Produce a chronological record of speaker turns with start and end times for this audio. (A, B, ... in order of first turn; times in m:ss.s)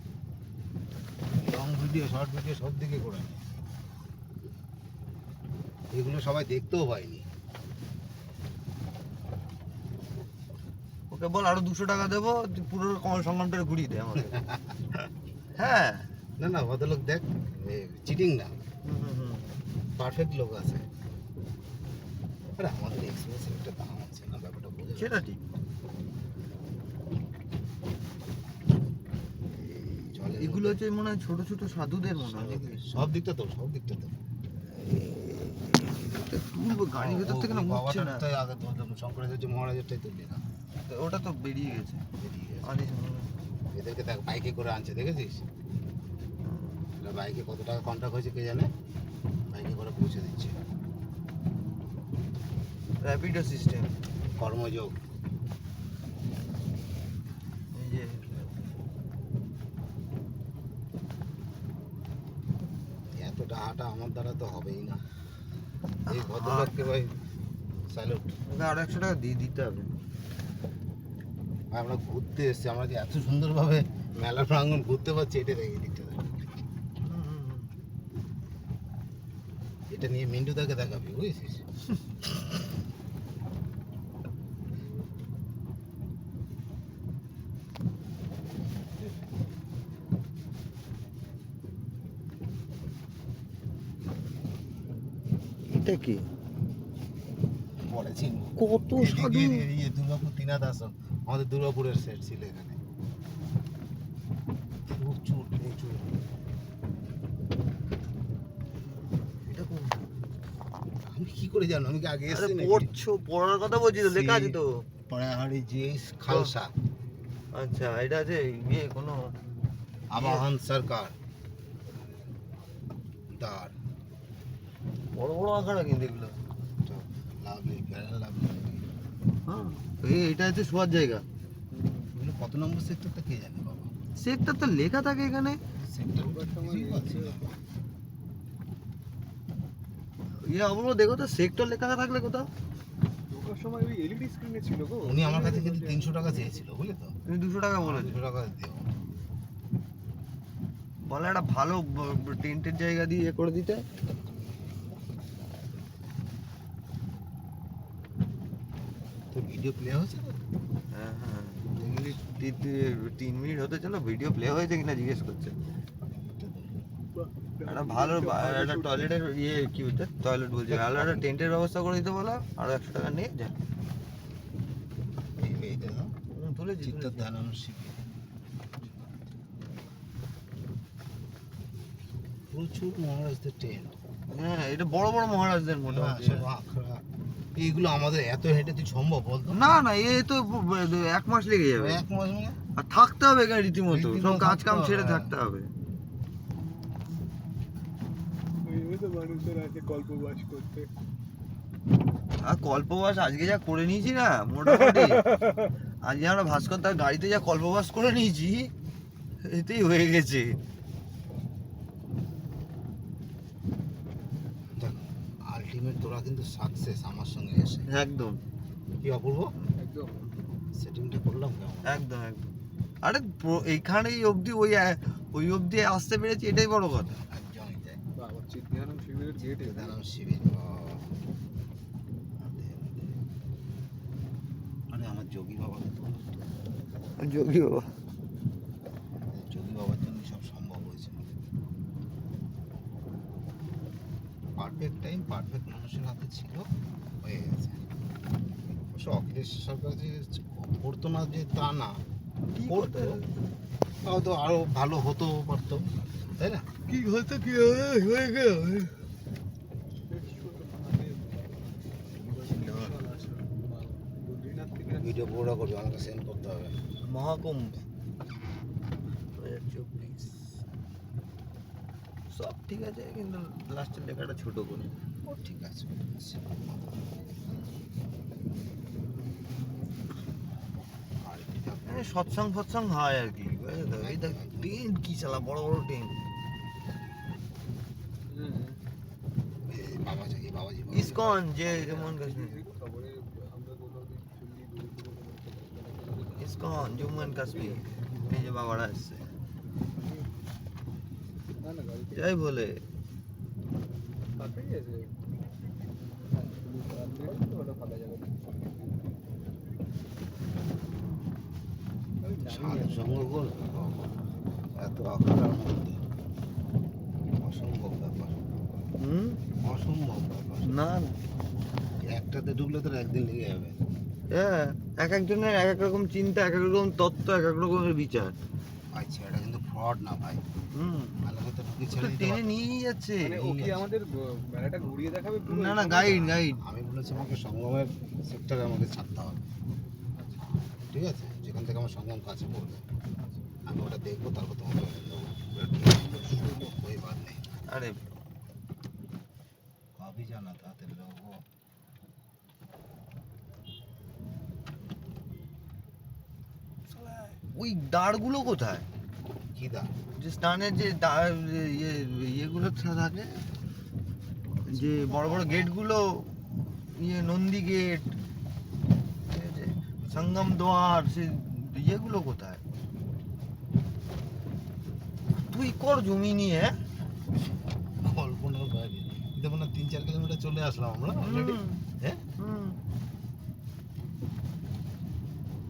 0:01.4-0:03.4 A
0:05.9-0:07.2 A
0:11.1-0:14.4 B
0:14.2-0:15.1 A
0:15.6-0:16.1 B
0:16.4-0:18.6 A
0:18.8-0:19.4 B
0:19.9-0:20.8 A
0:22.6-0:25.2 A
0:25.0-0:25.4 B
0:29.7-0:32.8 B
0:30.1-0:30.8 A
0:32.1-0:34.2 A
0:34.8-0:38.2 B
0:36.8-0:40.4 A
0:40.8-0:42.0 B
0:42.1-0:42.8 A
0:42.6-0:43.3 B
0:43.7-0:45.4 A
0:46.4-0:46.8 B
0:47.0-0:48.7 A
0:49.5-0:50.6 A
0:53.0-0:53.9 B
0:54.4-0:55.0 A
0:57.7-0:58.5 B
1:03.1-1:05.0 A
1:06.0-1:06.8 B
1:06.1-1:07.1 A
1:07.9-1:08.4 A
1:08.5-1:09.9 B
1:11.7-1:16.3 A
1:17.0-1:17.7 B
1:19.9-1:21.6 A
1:22.2-1:22.7 A
1:35.7-1:36.2 B
1:37.8-1:42.8 A
1:38.6-1:39.6 B
1:44.9-1:46.1 A
1:49.3-1:50.1 B
1:51.1-1:52.9 A
1:52.3-1:54.8 B
1:54.0-1:56.7 A
1:57.5-1:59.3 B
2:00.1-2:01.2 A
2:00.2-2:00.4 B
2:03.3-2:03.7 A
2:05.2-2:06.4 B
2:06.8-2:08.8 A
2:09.4-2:11.2 B
2:11.8-2:12.0 C
2:12.1-2:13.9 A
2:14.2-2:15.6 B
2:15.8-2:17.6 A
2:16.2-2:17.5 C
2:20.4-2:22.5 B
2:23.3-2:26.6 C
2:25.0-2:27.1 A
2:27.3-2:28.2 B
2:27.8-2:28.9 A
2:31.0-2:33.8 B
2:39.3-2:40.4 A
2:40.9-2:45.6 B
2:41.7-2:42.2 A
2:46.2-2:46.8 A
2:47.1-2:49.2 C
2:47.6-2:53.5 B
2:50.7-2:51.2 A
2:55.4-2:56.1 A
2:56.3-2:57.3 B
2:56.8-2:58.0 A
2:58.8-2:59.2 A
3:02.5-3:04.0 A
3:04.3-3:06.5 B
3:05.9-3:07.0 A
3:07.6-3:09.7 A
3:09.5-3:12.0 B
3:11.8-3:12.6 A
3:12.7-3:15.7 B
3:13.9-3:15.3 A
3:18.6-3:20.9 C
3:22.4-3:25.4 B
3:26.0-3:28.7 B
3:29.4-3:30.6 B
3:34.8-3:37.9 A
3:37.9-3:38.4 B
3:39.0-3:39.5 A
3:39.8-3:40.2 C
3:40.7-3:42.0 A
3:41.8-3:42.4 B
3:43.0-3:47.1 B
3:47.0-3:48.0 A
3:48.1-3:50.0 C
3:49.6-3:51.1 A
3:52.4-3:53.1 A
3:54.9-3:56.4 A
3:57.2-3:57.9 B
3:59.3-4:01.2 A
4:04.6-4:06.7 A
4:07.2-4:07.8 A
4:08.9-4:12.0 A
4:12.5-4:13.3 B
4:12.6-4:13.2 A
4:14.0-4:16.7 A
4:16.9-4:19.0 B
4:20.1-4:25.4 C
4:22.3-4:23.0 B
4:25.0-4:26.7 A
4:27.0-4:27.8 B
4:29.4-4:30.4 B
4:32.3-4:34.9 B
4:35.2-4:37.1 A
4:41.2-4:42.3 A
4:41.9-4:46.1 B
4:43.8-4:44.8 A
4:48.3-4:48.8 C
4:49.7-4:52.0 A
4:50.9-4:52.6 B
4:51.7-4:58.4 C
4:56.4-4:59.3 B
4:59.9-5:00.3 C
5:01.6-5:02.4 C
5:02.1-5:02.8 B
5:04.4-5:05.1 C
5:06.3-5:09.2 C
5:12.2-5:13.5 C
5:12.4-5:14.1 A
5:14.7-5:16.0 A
5:17.4-5:18.4 A
5:19.0-5:19.4 B
5:19.6-5:20.9 A
5:20.6-5:21.2 B
5:22.0-5:23.8 A
5:24.3-5:28.4 B
5:28.9-5:30.4 A
5:30.7-5:31.2 B
5:31.2-5:32.7 A
5:31.9-5:33.4 B
5:33.2-5:36.2 C
5:33.4-5:33.8 A
5:35.4-5:36.6 B
5:36.1-5:39.4 A
5:40.1-5:40.4 C
5:40.7-5:42.8 A
5:43.6-5:47.6 A
5:45.9-5:46.7 C
5:47.7-5:48.0 B
5:50.0-5:51.4 A
5:57.0-5:58.8 B
5:59.5-5:59.9 A
6:00.1-6:03.4 B
6:04.6-6:05.8 A
6:04.7-6:08.2 B
6:09.3-6:12.6 B
6:15.3-6:16.8 B
6:18.0-6:22.2 A
6:21.1-6:21.8 B
6:22.4-6:22.8 B